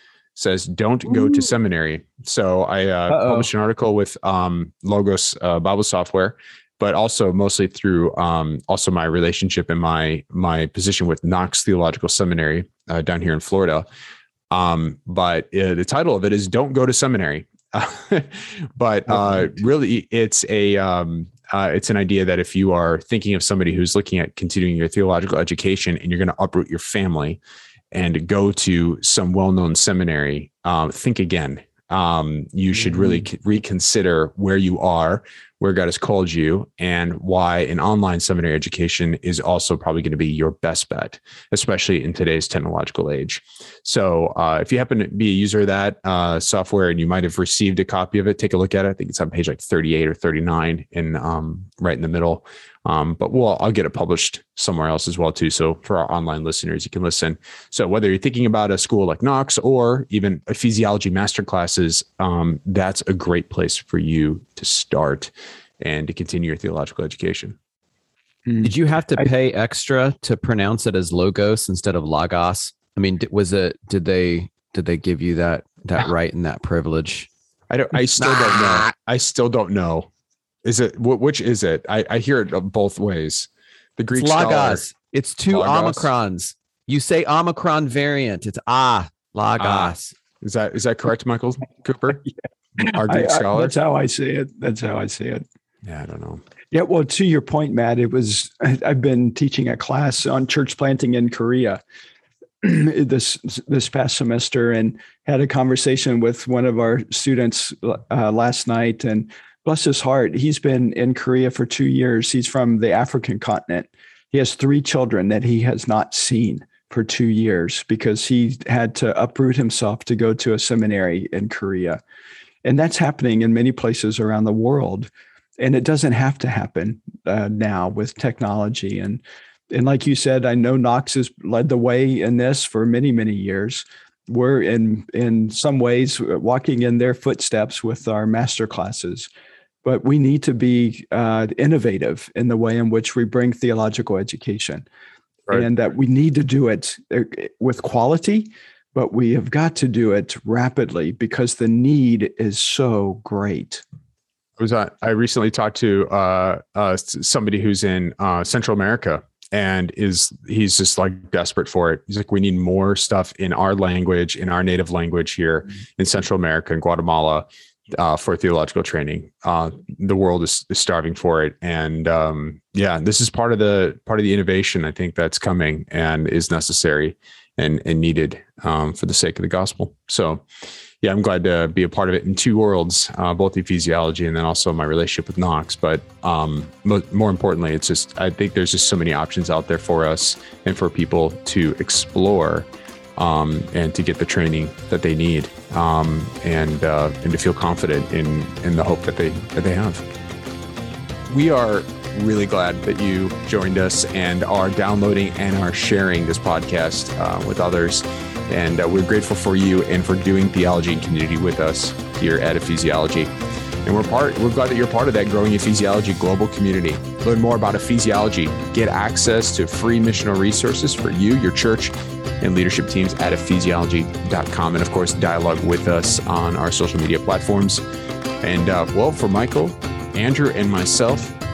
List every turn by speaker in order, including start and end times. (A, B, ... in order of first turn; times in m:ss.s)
0:00.3-0:13.9 A
0:01.1-0:01.4 B
0:03.1-0:03.5 B
0:14.5-0:27.4 A
0:27.9-1:07.6 A
1:08.4-1:09.2 B
1:08.6-1:17.3 C
1:17.7-1:20.1 A
1:18.2-1:18.9 C
1:20.6-1:24.9 A
1:24.1-1:30.1 C
1:25.5-1:26.1 A
1:29.6-1:32.2 A
1:32.8-1:33.7 A
1:33.0-1:35.4 B
1:35.8-1:36.4 A
1:36.7-1:41.8 B
1:42.6-2:02.0 B
2:02.6-2:19.3 B
2:19.8-2:24.8 B
2:25.5-2:33.8 B
2:34.6-3:00.4 A
3:01.0-3:20.0 A
3:21.3-3:33.3 A
3:33.8-3:47.8 A
3:48.4-3:51.3 A